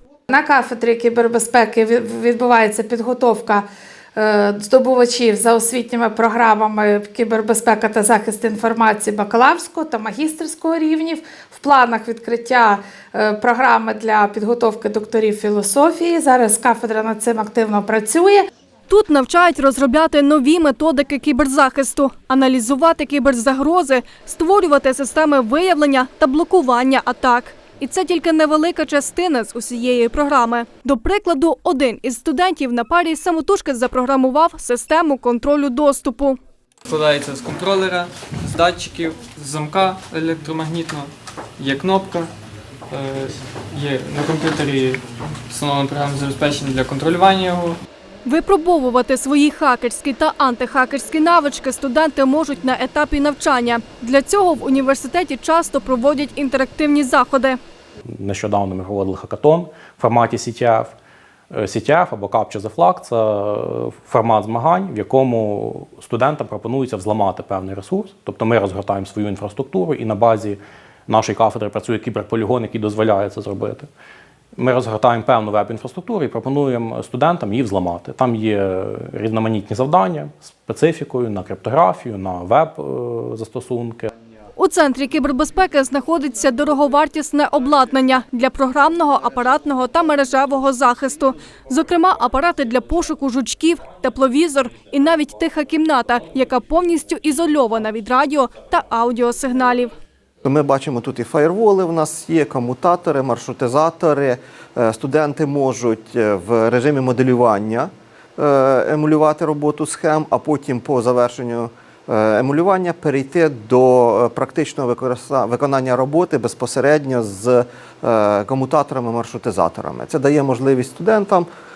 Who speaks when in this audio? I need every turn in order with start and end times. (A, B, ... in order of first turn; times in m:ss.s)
0:00.3-0:18.4 A
0:18.9-0:36.4 B
0:36.8-0:42.3 C
0:42.9-0:47.8 C
0:48.2-0:57.6 B
0:58.1-1:00.9 D
1:01.5-1:13.9 D
1:14.6-1:24.1 D
1:24.6-1:39.9 B
1:40.4-2:01.5 E